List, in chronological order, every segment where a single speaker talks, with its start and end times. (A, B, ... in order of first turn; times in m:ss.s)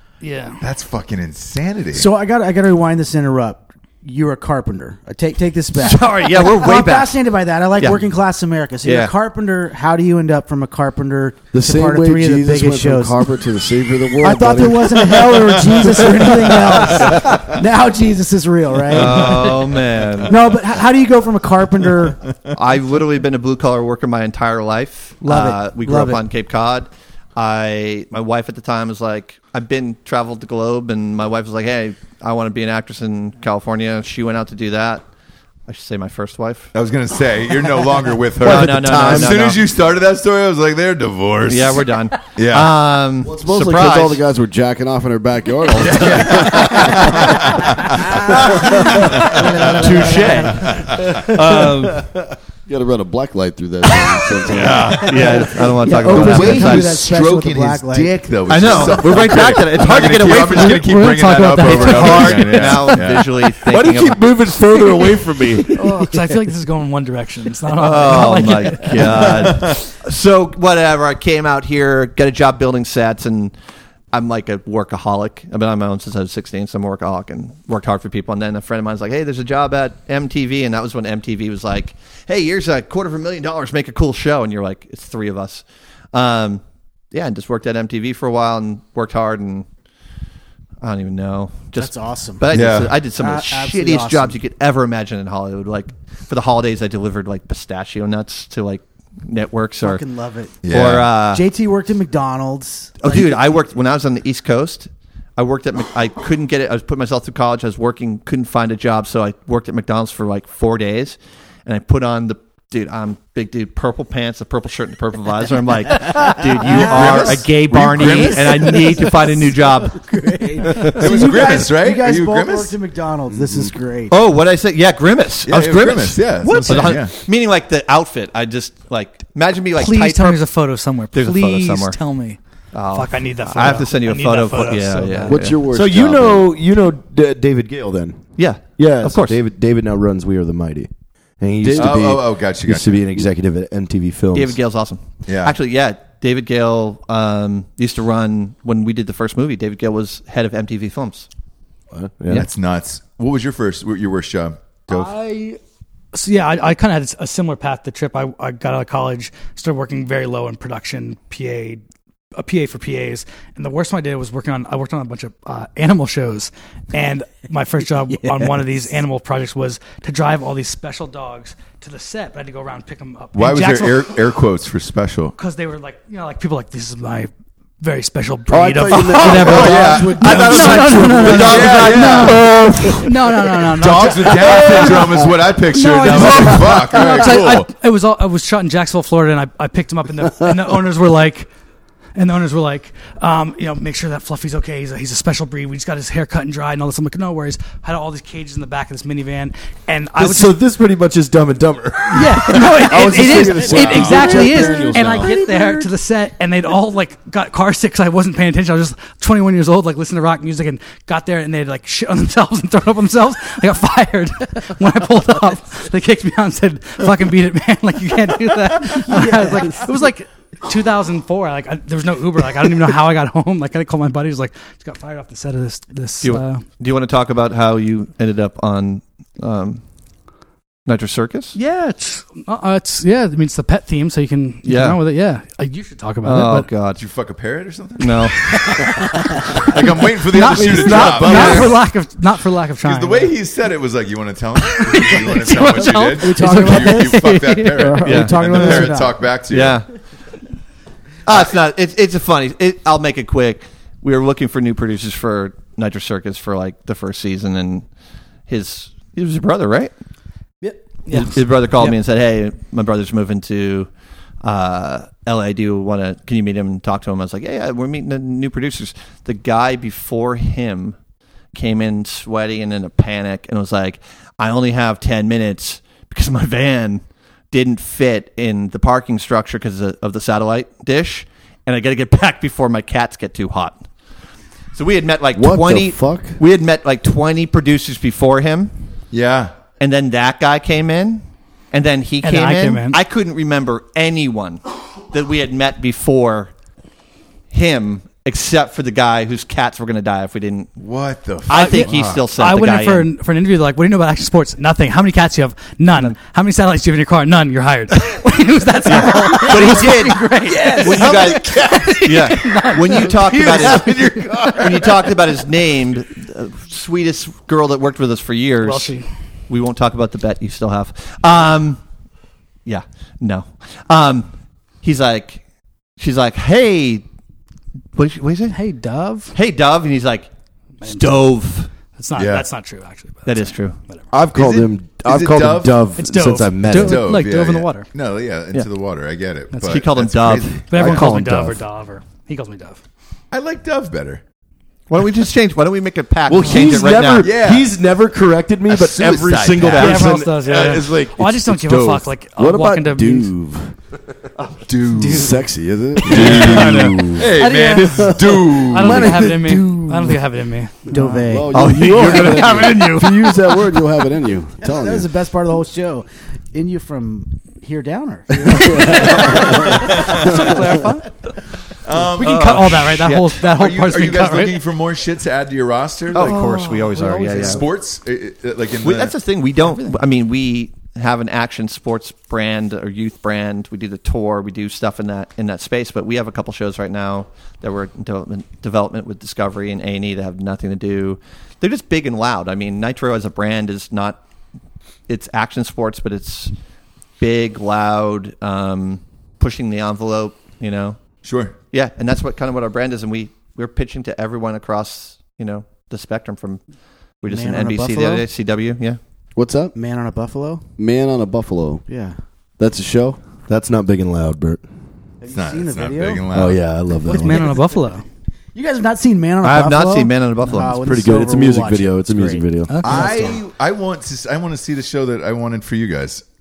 0:00.2-0:00.6 A
0:00.6-0:02.1 B
0:01.9-0:13.3 C
0:05.8-0:07.2 D
0:05.9-0:06.4 A
0:07.8-0:08.0 D
0:08.8-0:09.1 D
0:11.5-0:15.3 E
0:14.2-0:19.7 C
0:15.1-0:15.9 B
0:18.9-0:20.4 D
0:20.3-0:22.2 C
0:22.6-0:35.0 D
0:25.2-0:26.2 C
0:35.7-0:36.7 D
0:36.7-0:42.7 B
0:38.4-0:39.4 F
0:38.4-0:39.6 D
0:41.5-0:44.2 D
0:43.3-0:43.7 F
0:43.4-0:47.2 E
0:45.8-0:49.8 B
0:47.8-0:51.3 C
0:49.6-0:52.1 D
0:50.0-0:50.4 F
0:50.5-0:51.1 B
0:51.0-0:52.1 F
0:52.6-0:55.0 E
0:54.5-0:55.5 B
0:54.6-0:56.9 D
0:55.1-0:59.0 C
0:56.1-1:03.3 B
0:58.5-1:00.9 D
1:00.5-1:03.1 A
1:01.6-1:04.2 D
1:03.6-1:06.0 F
1:04.7-1:09.7 A
1:07.8-1:13.6 D
1:09.4-1:09.7 B
1:14.1-1:29.7 D
1:30.8-1:40.0 D
1:31.7-1:32.5 C
1:32.5-1:32.9 B
1:33.1-1:34.4 C
1:39.8-1:40.6 C
1:40.6-1:41.1 B
1:40.7-1:41.4 D
1:41.2-1:43.4 C
1:43.0-2:00.0 D
1:56.0-2:04.2 C
1:56.7-1:58.8 B
2:00.8-2:02.7 B
2:04.1-2:10.4 D
2:05.4-2:07.1 B
2:09.8-2:15.5 A
2:11.1-2:12.0 D
2:12.7-2:15.6 D
2:15.3-2:16.5 E
2:15.6-2:24.6 F
2:18.4-2:19.4 D
2:21.6-2:22.2 E
2:21.8-2:23.1 B
2:24.3-2:31.3 D
2:25.3-2:25.6 B
2:31.9-2:32.5 F
2:32.3-2:35.1 B
2:34.9-2:35.6 A
2:36.1-2:41.8 A
2:42.3-2:54.2 A
2:53.3-2:55.3 B
2:55.4-3:11.5 A
2:58.5-3:02.9 F
2:59.2-2:59.7 E
2:59.5-3:02.6 B
3:00.8-3:01.3 E
3:03.8-3:07.7 B
3:12.1-3:20.6 A
3:20.2-3:25.3 F
3:22.1-3:46.6 A
3:22.9-3:25.3 E
3:23.8-3:24.2 B
3:24.1-3:25.9 C
3:39.1-3:39.9 C
3:46.2-3:49.8 D
3:50.9-3:51.6 D
3:51.6-3:56.7 A
3:54.6-3:55.0 D
3:56.2-3:57.0 D
3:57.0-3:58.9 B
3:58.0-3:58.4 D
3:58.6-3:59.2 A
3:59.6-4:01.8 B
3:59.8-4:03.3 A
4:00.9-4:01.7 D
4:01.3-4:01.5 C
4:02.8-4:09.8 B
4:04.6-4:08.2 A
4:06.2-4:09.3 C
4:08.0-4:08.9 D
4:09.5-4:09.9 D
4:11.2-4:17.9 D
4:18.5-4:19.9 D
4:20.6-4:22.0 A
4:21.1-4:23.9 D
4:24.4-4:31.0 D
4:31.5-4:43.9 D
4:44.7-4:48.7 D
4:45.4-4:46.4 E
4:49.1-4:49.5 B
4:49.8-4:56.5 D
4:52.2-4:53.0 A
4:57.5-5:00.7 D
5:00.8-5:02.2 B
5:01.5-5:03.1 D
5:01.5-5:14.7 A
5:08.8-5:18.9 D
5:10.9-5:12.1 F
5:13.0-5:15.1 F
5:18.6-5:19.0 A
5:19.5-5:21.8 D
5:22.6-5:24.3 D
5:24.8-5:25.4 D
5:26.0-5:27.0 D
5:27.9-5:28.6 D
5:28.5-5:29.3 A
5:29.3-5:30.3 D
5:30.8-5:31.3 A
5:30.8-5:31.7 D
5:31.9-5:34.0 A
5:32.2-5:32.5 B
5:33.2-5:33.8 D
5:34.1-5:37.2 F
5:34.3-5:35.9 B
5:36.0-5:37.9 A
5:36.7-5:41.1 B
5:39.5-5:39.8 A
5:39.6-5:41.1 D
5:40.7-5:42.8 A
5:41.1-5:41.5 F
5:41.3-5:41.5 E
5:43.3-5:44.2 B
5:44.9-5:47.3 D
5:46.3-5:51.3 F
5:47.2-5:47.7 B
5:48.7-5:50.0 B
5:49.6-5:50.0 D
5:49.7-5:53.3 A
5:50.3-5:53.7 E
5:54.7-5:55.3 B
5:54.9-5:55.4 A
5:55.1-5:57.3 E
5:56.0-5:59.3 B
5:56.1-5:56.9 D
5:56.2-5:56.5 A
5:57.2-6:01.2 A
5:58.8-6:00.1 E
5:58.9-6:00.2 F
6:00.9-6:02.2 C
6:01.1-6:05.1 E
6:01.5-6:03.1 D
6:04.6-6:10.5 C
6:08.6-6:11.3 A
6:08.6-6:09.0 E
6:09.4-6:10.4 B
6:11.8-6:16.4 B
6:12.2-6:14.6 A
6:12.2-6:13.3 D
6:16.1-6:17.6 D
6:16.1-6:17.7 A
6:17.4-6:19.1 B
6:18.8-6:34.2 D
6:19.6-6:20.0 A
6:35.1-6:36.5 D
6:37.2-6:41.0 D
6:41.2-6:41.6 B
6:41.7-6:46.6 D
6:47.2-6:49.0 D
6:47.3-6:48.3 C
6:49.4-6:49.7 E
6:49.7-6:50.6 C
6:50.8-6:51.9 E
6:51.9-6:52.2 C
6:52.6-6:53.2 E
6:53.5-6:54.6 F
6:55.2-6:56.3 C
6:55.3-6:56.6 B
6:56.3-6:57.6 F
6:57.0-6:58.0 A
6:57.2-6:57.8 C
6:58.5-7:03.4 C
6:59.4-7:00.8 D
7:00.5-7:00.8 A
7:00.8-7:02.8 F
7:02.7-7:03.1 A
7:02.8-7:06.2 B